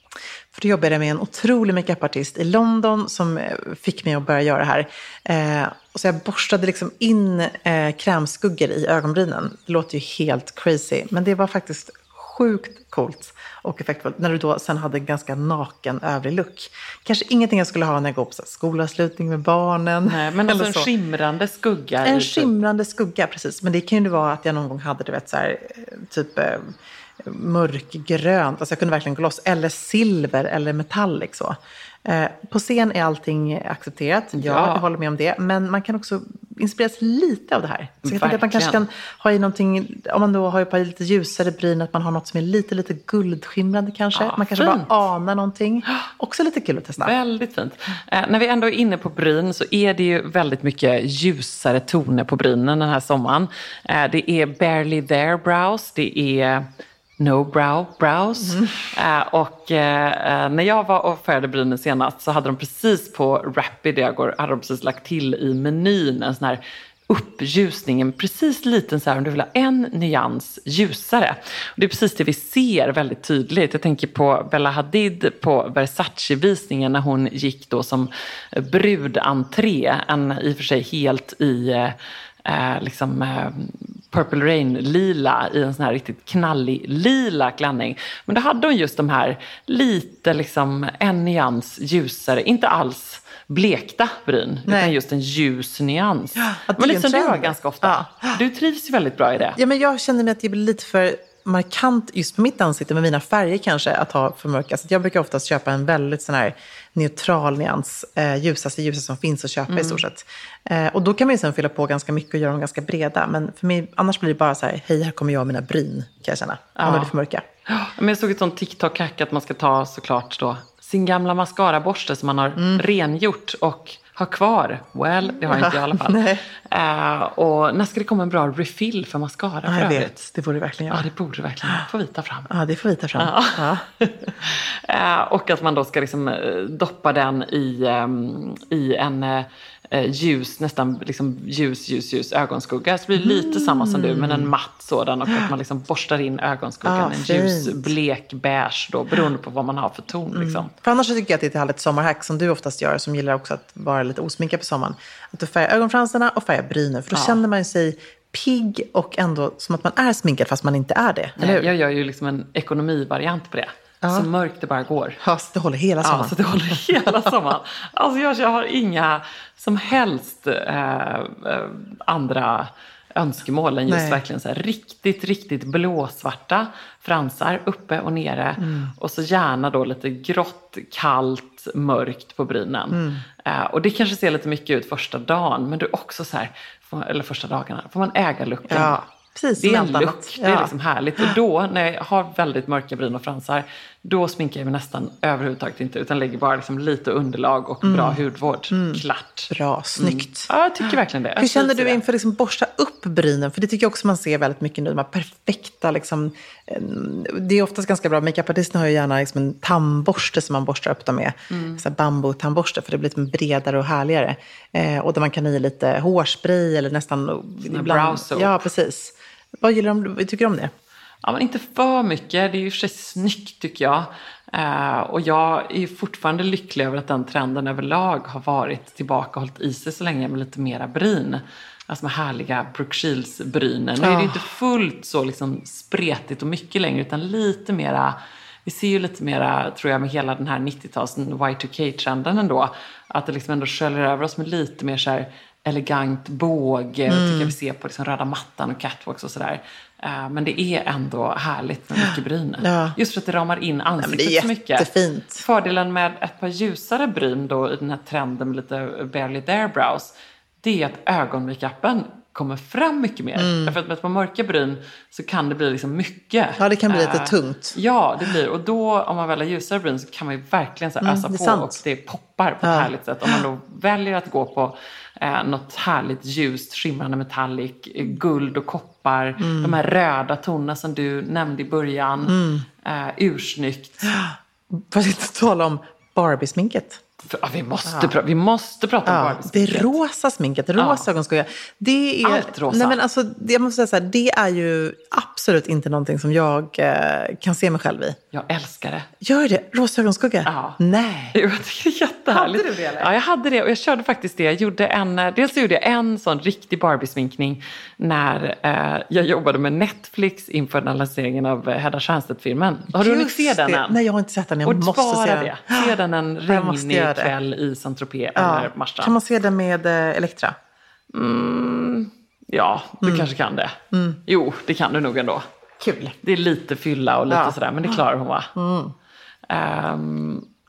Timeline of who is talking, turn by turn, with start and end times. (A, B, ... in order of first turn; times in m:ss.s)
0:00.5-0:20.9 A
0:20.0-0:22.5 B
0:22.0-0:47.1 A
0:34.3-0:34.8 B
0:38.0-0:38.8 B
0:44.1-0:44.9 B
0:47.0-0:56.7 B
0:57.2-1:39.6 B
1:34.7-1:34.9 A
1:36.5-1:38.4 A
1:39.6-1:57.4 A
1:49.7-1:50.0 B
1:56.8-1:57.1 B
1:57.7-2:10.3 B
2:02.6-2:02.8 A
2:05.4-2:06.4 A
2:09.7-2:11.1 A
2:10.9-2:12.5 B
2:12.5-2:13.8 A
2:13.2-2:30.7 B
2:23.2-2:24.5 A
2:26.8-2:27.9 A
2:30.3-2:41.7 A
2:37.1-2:37.4 B
2:41.4-2:45.2 B
2:44.0-2:44.3 A
2:45.2-2:46.4 A
2:46.0-3:09.0 B
2:46.9-2:47.3 A
2:53.9-2:54.2 A
2:58.6-2:58.9 A
3:02.9-3:03.2 A
3:08.7-3:11.3 A
3:09.6-3:22.0 B
3:17.8-3:40.7 A
3:31.5-3:31.8 B
3:37.6-3:38.6 B
3:41.2-4:14.9 B
3:54.0-3:54.4 A
4:07.1-4:07.5 A
4:12.0-4:13.0 A
4:14.0-4:15.4 A
4:15.4-4:20.1 B
4:20.6-4:44.1 B
4:23.4-4:23.8 A
4:26.6-4:27.8 A
4:31.0-4:31.8 A
4:32.6-4:33.4 A
4:39.4-4:39.8 A
4:42.2-4:42.6 A
4:44.0-4:47.0 A
4:47.2-4:49.9 B
4:47.8-4:48.2 A
4:49.0-4:58.2 A
4:50.8-4:51.0 B
4:52.2-4:53.0 B
4:58.3-4:59.1 B
4:59.2-5:01.4 A
5:00.4-5:00.8 B
5:01.3-5:14.0 B
5:02.3-5:03.1 A
5:12.9-5:15.9 A
5:14.6-5:19.1 B
5:16.5-5:17.3 A
5:18.4-5:20.6 A
5:21.1-5:23.8 B
5:23.0-5:23.3 A
5:23.9-5:24.2 A
5:24.3-5:25.4 B
5:25.8-5:26.1 A
5:26.2-5:28.5 B
5:27.3-5:28.0 A
5:28.6-5:28.9 A
5:29.5-5:30.4 B